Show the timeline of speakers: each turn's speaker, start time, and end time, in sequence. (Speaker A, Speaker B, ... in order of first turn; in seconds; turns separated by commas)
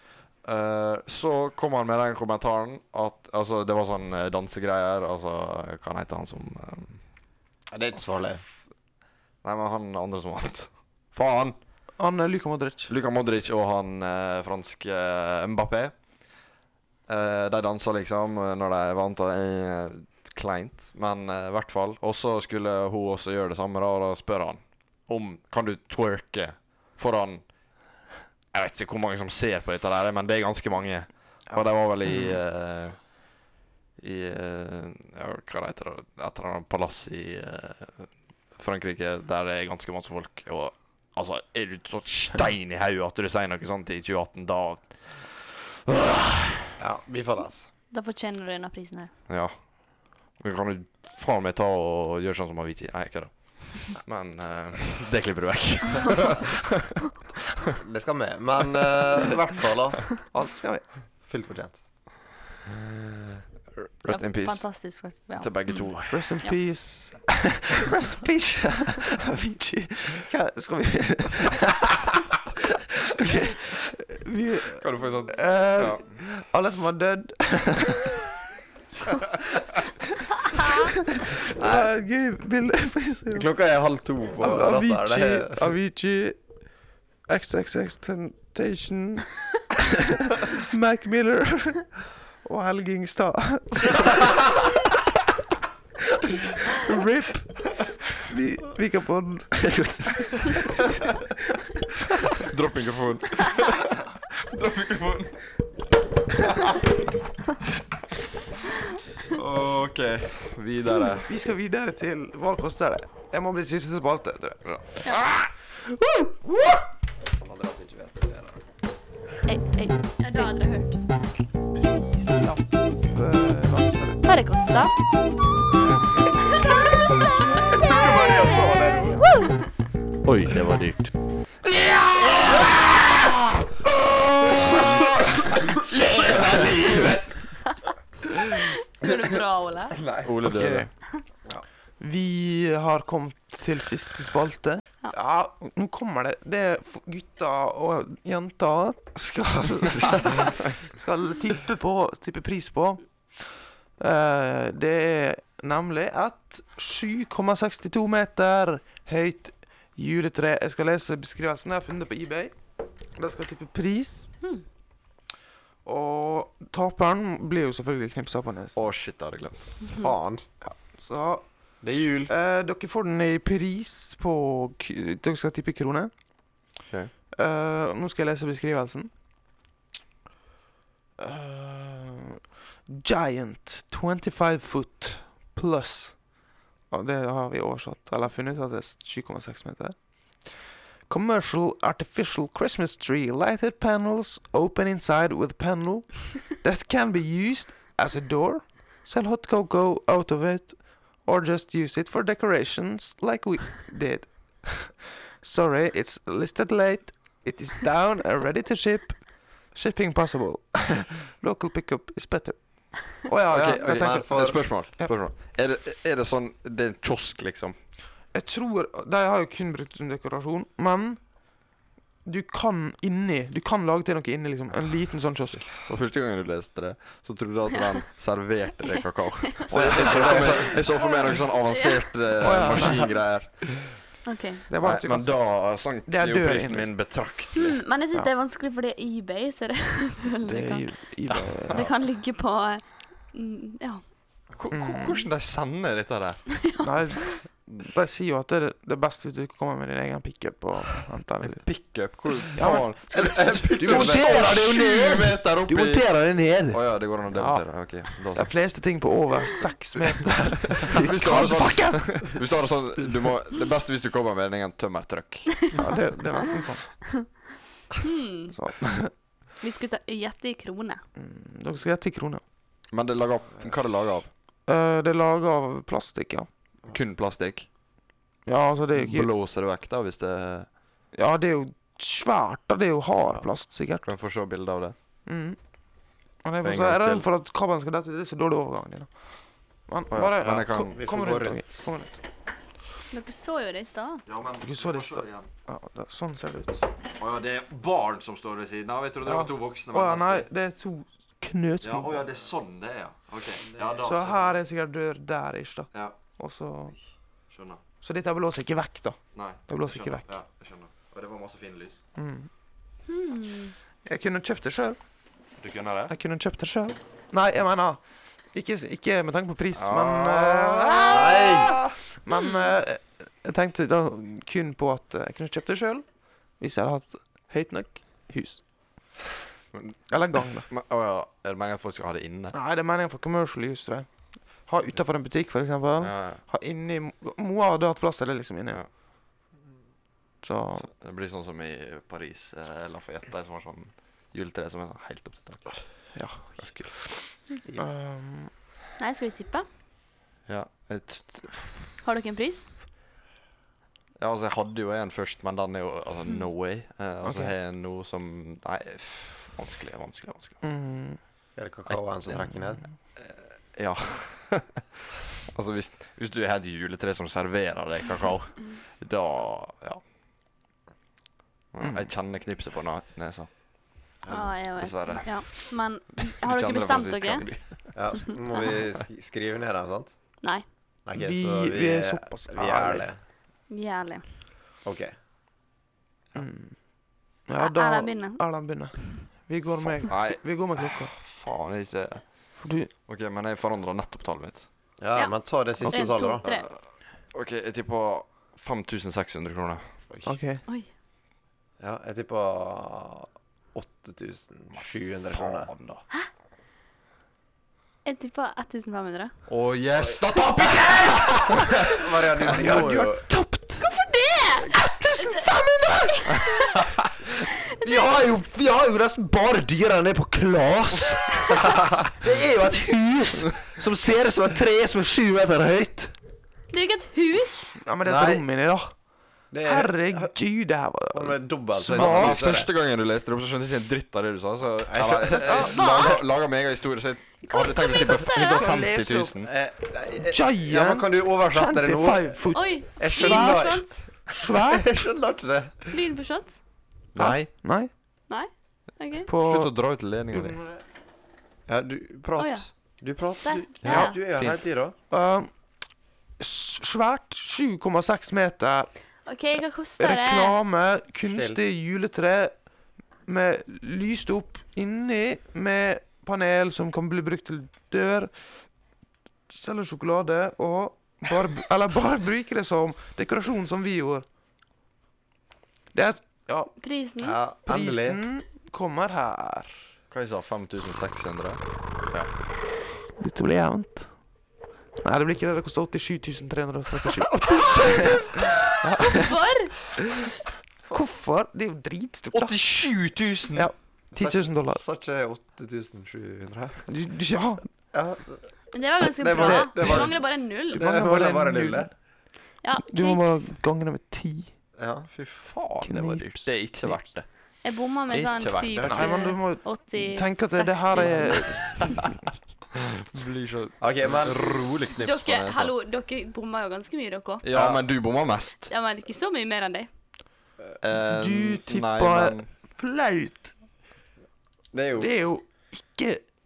Speaker A: 0.4-7.0, Speaker B: 7.7-8.4, Speaker A: 9.4-11.6, Speaker C: 12.0-12.9, Speaker A: 12.9-15.9, Speaker A: 17.1-27.4, Speaker A: 28.5-33.0, Speaker C: 32.0-32.4, Speaker A: 34.0-46.7, Speaker B: 46.8-47.7, Speaker D: 47.9-49.1, Speaker A: 49.3-49.5, Speaker A: 50.3-56.8, Speaker B: 57.8-60.2, Speaker C: 60.2-60.8, Speaker B: 61.2-61.8, Speaker A: 62.8-64.6, Speaker D: 64.1-65.8, Speaker A: 65.4-66.3, Speaker C: 66.1-72.1, Speaker C: 73.0-78.2, Speaker A: 74.8-76.1, Speaker C: 80.7-83.5, Speaker B: 81.5-81.9, Speaker B: 83.3-85.6, Speaker C: 84.4-86.4, Speaker C: 87.3-94.3, Speaker C: 96.6-100.2, Speaker A: 102.3-105.4, Speaker A: 109.3-111.3, Speaker C: 111.3-114.6, Speaker A: 114.6-115.5, Speaker B: 117.4-118.6, Speaker D: 119.5-121.0, Speaker C: 121.7-124.2, Speaker D: 124.2-124.9, Speaker B: 127.6-129.3, Speaker D: 129.2-129.7, Speaker A: 130.2-131.1, Speaker A: 131.7-137.4, Speaker B: 136.3-136.9, Speaker D: 138.6-140.0, Speaker B: 139.9-140.4, Speaker A: 140.2-140.9, Speaker C: 140.4-140.9, Speaker C: 142.0-162.6, Speaker C: 163.1-164.3, Speaker C: 165.8-168.8, Speaker A: 168.7-169.9, Speaker B: 169.8-170.4, Speaker C: 170.7-171.4, Speaker B: 171.8-172.3, Speaker C: 172.3-176.1, Speaker C: 177.3-179.1, Speaker C: 181.2-186.3, Speaker C: 186.9-215.1, Speaker B: 213.5-214.6, Speaker A: 213.5-217.8, Speaker C: 218.3-221.2, Speaker C: 222.2-225.7, Speaker A: 225.6-234.0, Speaker C: 229.7-230.7, Speaker B: 229.7-230.8, Speaker D: 230.7-232.0, Speaker C: 232.4-233.2, Speaker D: 234.2-234.6, Speaker C: 234.7-235.4, Speaker A: 234.8-237.8, Speaker C: 236.0-236.9, Speaker D: 237.6-240.9, Speaker C: 240.4-241.9, Speaker A: 241.3-241.9, Speaker D: 241.6-244.0, Speaker A: 244.5-246.5, Speaker C: 244.7-245.2, Speaker D: 246.6-247.4, Speaker C: 246.8-251.8, Speaker A: 251.4-256.1, Speaker C: 252.5-262.4, Speaker B: 253.1-254.5, Speaker A: 256.7-258.5, Speaker A: 260.8-265.7, Speaker C: 265.8-267.0, Speaker D: 268.0-268.5, Speaker C: 268.5-269.1, Speaker D: 269.6-271.0, Speaker C: 271.1-272.4, Speaker A: 272.9-274.3, Speaker C: 274.6-276.5, Speaker A: 276.9-277.7, Speaker C: 278.4-279.3, Speaker A: 278.9-280.7, Speaker C: 281.1-284.0, Speaker A: 284.0-284.9, Speaker C: 285.2-285.6, Speaker C: 286.4-289.1, Speaker A: 286.6-287.3, Speaker C: 289.9-292.1, Speaker A: 290.1-290.9, Speaker B: 290.9-291.8, Speaker D: 293.1-294.2, Speaker A: 294.2-295.5, Speaker C: 294.6-296.9, Speaker A: 297.2-300.5, Speaker C: 299.2-302.2, Speaker A: 301.8-304.5, Speaker B: 303.7-304.0, Speaker C: 304.0-306.9, Speaker A: 307.5-307.8, Speaker C: 308.0-310.3, Speaker A: 309.3-312.0, Speaker C: 312.1-312.5, Speaker D: 313.1-313.7, Speaker C: 314.1-315.0, Speaker A: 315.6-316.1, Speaker C: 316.1-318.0, Speaker C: 318.5-328.6, Speaker A: 319.7-321.7, Speaker B: 321.1-321.7, Speaker A: 329.7-332.6, Speaker C: 330.1-330.7, Speaker C: 332.5-338.8, Speaker A: 336.0-336.4, Speaker C: 340.4-340.9, Speaker A: 340.8-345.7, Speaker C: 346.1-348.5, Speaker A: 346.5-346.9, Speaker D: 349.0-349.6, Speaker A: 350.5-351.8, Speaker D: 352.0-352.7, Speaker A: 354.2-360.6, Speaker C: 357.2-357.5, Speaker C: 360.6-361.2, Speaker B: 361.6-362.8, Speaker A: 363.1-364.8, Speaker A: 365.4-370.0, Speaker A: 371.7-373.5, Speaker C: 371.8-372.1, Speaker B: 374.2-374.5, Speaker D: 374.3-377.5, Speaker A: 374.8-375.7, Speaker A: 376.4-377.9, Speaker B: 377.9-380.1, Speaker B: 381.1-383.2, Speaker C: 381.1-383.1, Speaker D: 383.7-384.2, Speaker B: 384.8-385.1, Speaker C: 386.3-386.8, Speaker C: 387.4-391.1, Speaker D: 387.6-388.4, Speaker A: 390.0-392.2, Speaker C: 392.6-392.9, Speaker A: 393.1-394.6, Speaker B: 395.0-396.4, Speaker D: 395.1-396.7, Speaker A: 395.8-396.8, Speaker A: 397.3-399.9, Speaker C: 400.2-400.6, Speaker B: 401.8-405.7, Speaker A: 404.7-406.0, Speaker D: 408.0-409.3, Speaker A: 409.5-411.8, Speaker C: 411.6-411.8, Speaker B: 411.8-413.2, Speaker C: 412.4-413.9, Speaker D: 413.8-415.4, Speaker C: 414.7-416.6, Speaker D: 416.2-416.9, Speaker D: 417.8-418.1, Speaker C: 417.8-426.1, Speaker D: 426.7-427.7, Speaker C: 427.8-428.9, Speaker B: 428.0-428.4, Speaker B: 429.5-430.3, Speaker C: 429.6-432.6, Speaker B: 431.1-432.7, Speaker A: 431.9-439.5, Speaker B: 434.9-436.2, Speaker C: 435.4-435.9, Speaker D: 437.5-438.8, Speaker C: 438.4-439.4, Speaker B: 439.4-446.0, Speaker C: 440.2-444.9, Speaker D: 442.5-444.1, Speaker D: 445.9-446.6, Speaker A: 447.1-447.5, Speaker C: 447.2-447.9, Speaker D: 448.3-449.3, Speaker C: 449.3-449.7, Speaker A: 449.4-450.6, Speaker C: 450.3-450.8, Speaker B: 451.7-454.9, Speaker D: 452.4-452.7, Speaker D: 453.4-454.2, Speaker A: 453.8-454.6, Speaker C: 455.1-455.5, Speaker C: 456.4-458.9, Speaker D: 459.2-460.6, Speaker C: 460.0-462.5, Speaker B: 461.3-461.6, Speaker C: 463.2-468.3, Speaker C: 469.5-474.2, Speaker C: 475.9-476.7, Speaker D: 476.8-477.4, Speaker B: 477.2-478.2, Speaker C: 477.6-479.7, Speaker A: 480.1-482.3, Speaker C: 483.2-484.1, Speaker C: 485.0-489.3, Speaker A: 487.6-488.6, Speaker D: 489.0-489.7, Speaker C: 490.9-492.6, Speaker A: 492.3-493.7, Speaker C: 493.5-494.8, Speaker B: 494.1-496.9, Speaker C: 496.9-497.7, Speaker B: 497.9-498.4, Speaker D: 498.7-500.9, Speaker B: 499.2-501.9, Speaker C: 499.3-500.1, Speaker C: 500.7-501.9, Speaker D: 502.6-503.5, Speaker C: 502.9-504.5, Speaker B: 504.8-505.1, Speaker A: 505.1-507.2, Speaker C: 505.8-507.0, Speaker D: 507.6-512.0, Speaker A: 508.1-508.8, Speaker B: 508.8-509.1, Speaker C: 508.9-512.3, Speaker A: 513.0-515.7, Speaker B: 513.8-514.5, Speaker D: 515.0-517.4, Speaker A: 517.4-518.7, Speaker B: 517.5-517.8, Speaker D: 518.7-519.9, Speaker A: 520.8-522.5, Speaker C: 521.0-523.5, Speaker B: 524.7-525.1, Speaker C: 525.0-526.2